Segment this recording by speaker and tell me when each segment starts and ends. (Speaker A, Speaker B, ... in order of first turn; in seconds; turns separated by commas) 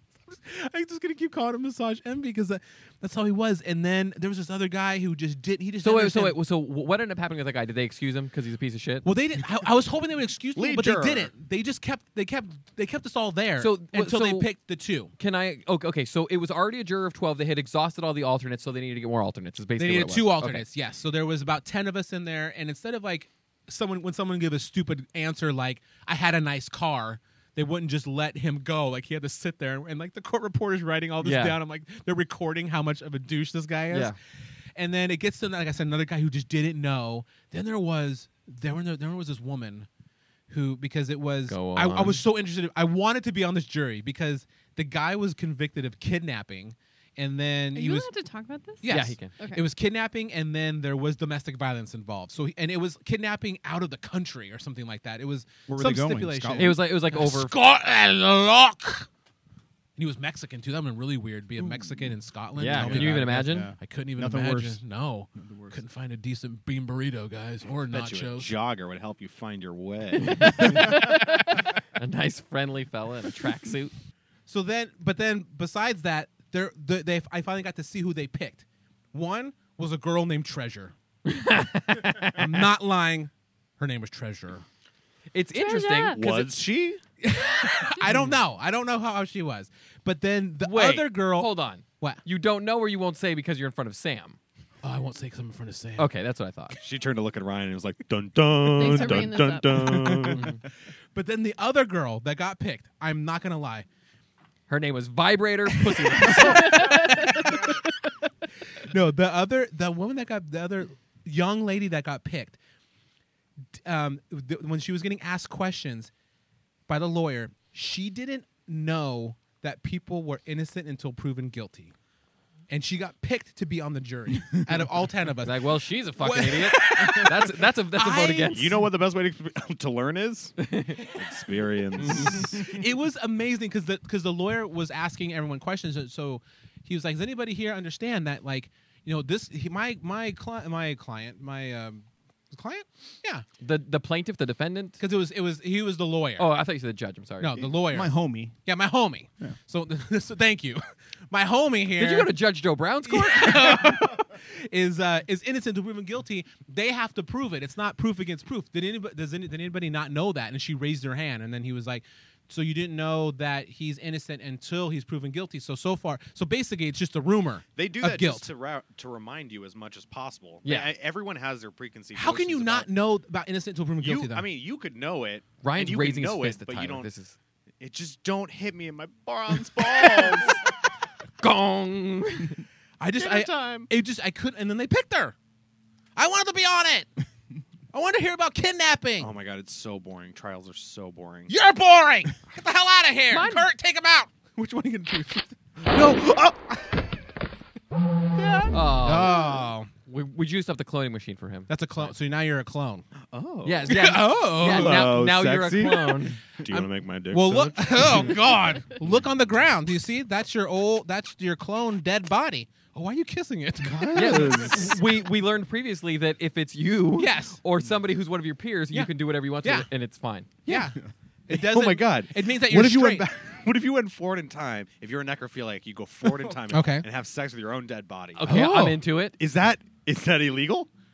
Speaker A: 0.2-6.4, Speaker B: 5.8-9.1, Speaker A: 9.0-15.1, Speaker C: 10.5-11.3, Speaker B: 13.6-14.5, Speaker B: 15.2-20.6, Speaker A: 19.8-34.1, Speaker B: 31.2-31.6, Speaker B: 33.9-34.1, Speaker A: 34.8-39.9, Speaker A: 40.5-48.1, Speaker B: 41.5-42.2, Speaker D: 47.7-49.6, Speaker A: 48.8-59.1, Speaker B: 48.9-49.3, Speaker E: 55.7-56.8, Speaker B: 56.5-57.5, Speaker A: 60.0-68.5, Speaker B: 62.5-63.7, Speaker E: 62.6-64.8, Speaker E: 65.4-65.8, Speaker C: 67.9-71.0, Speaker B: 70.2-73.9, Speaker A: 70.8-71.4, Speaker A: 74.5-80.9, Speaker B: 81.2-82.5, Speaker A: 82.2-84.6, Speaker B: 85.3-86.5, Speaker D: 85.5-86.2, Speaker C: 86.1-87.0, Speaker A: 87.2-92.2, Speaker B: 88.1-88.3, Speaker B: 90.6-94.4, Speaker A: 94.8-96.1, Speaker B: 96.0-96.8, Speaker C: 96.7-100.6, Speaker D: 98.6-100.1, Speaker A: 100.0-100.5, Speaker A: 101.1-103.8, Speaker B: 104.7-107.1, Speaker A: 105.8-107.8, Speaker D: 106.4-107.6, Speaker A: 108.7-112.6, Speaker A: 113.8-116.1, Speaker A: 116.9-121.9, Speaker A: 122.7-128.7, Speaker B: 125.4-128.8, Speaker C: 128.4-132.8, Speaker B: 130.6-131.1, Speaker A: 132.0-143.4, Speaker B: 132.0-132.5, Speaker B: 143.6-145.0, Speaker A: 145.0-146.5, Speaker B: 146.4-147.7, Speaker A: 147.4-148.1, Speaker E: 147.8-148.5, Speaker A: 148.6-152.4, Speaker B: 151.9-154.0, Speaker A: 153.0-168.5, Speaker C: 167.8-172.9, Speaker B: 170.6-170.9, Speaker A: 172.1-174.5, Speaker C: 174.0-177.1, Speaker B: 175.6-177.4, Speaker C: 177.8-180.7, Speaker B: 179.9-180.6, Speaker B: 181.4-182.6, Speaker A: 183.0-185.3, Speaker C: 183.1-183.9, Speaker A: 186.2-187.1, Speaker A: 187.9-189.3, Speaker C: 189.2-191.5, Speaker A: 191.5-197.1, Speaker B: 193.3-193.7, Speaker A: 198.3-199.9, Speaker B: 198.7-202.1, Speaker A: 201.7-203.0, Speaker C: 203.2-208.5, Speaker B: 203.6-206.4, Speaker A: 203.9-205.2, Speaker A: 206.7-215.0, Speaker C: 213.8-215.0, Speaker B: 214.1-220.7, Speaker A: 217.2-217.6, Speaker A: 218.9-219.9, Speaker A: 220.7-223.3, Speaker C: 221.5-228.4, Speaker A: 226.7-227.1, Speaker B: 228.4-229.4, Speaker A: 228.4-229.0, Speaker C: 229.3-230.9